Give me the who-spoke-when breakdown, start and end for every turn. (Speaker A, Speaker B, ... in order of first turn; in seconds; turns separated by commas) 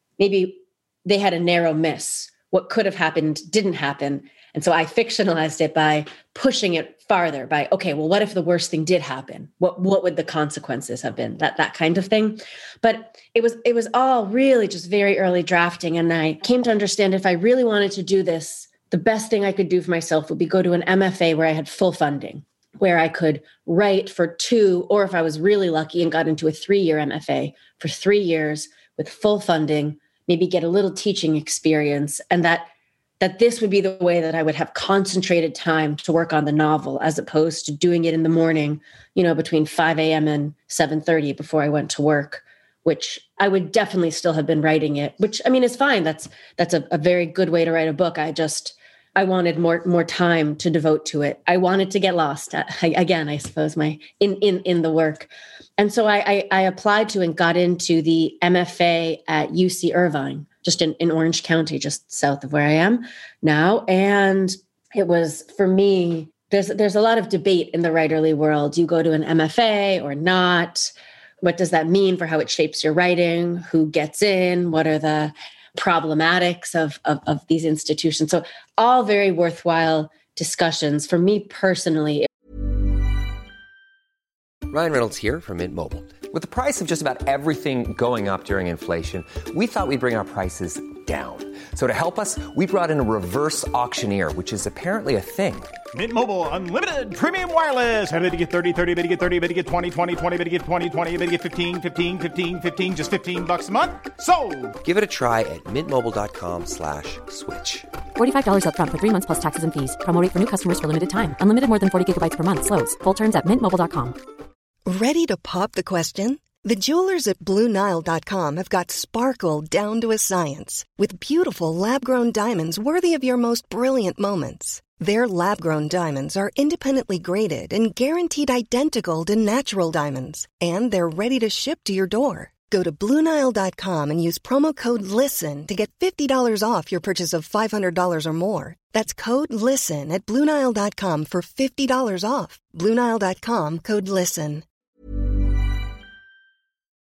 Speaker A: 0.2-32.7, Speaker A: 33.2-82.3, Speaker B: 84.7-95.7, Speaker C: 95.9-104.8, Speaker B: 104.8-107.9, Speaker D: 108.2-114.2, Speaker E: 114.9-144.6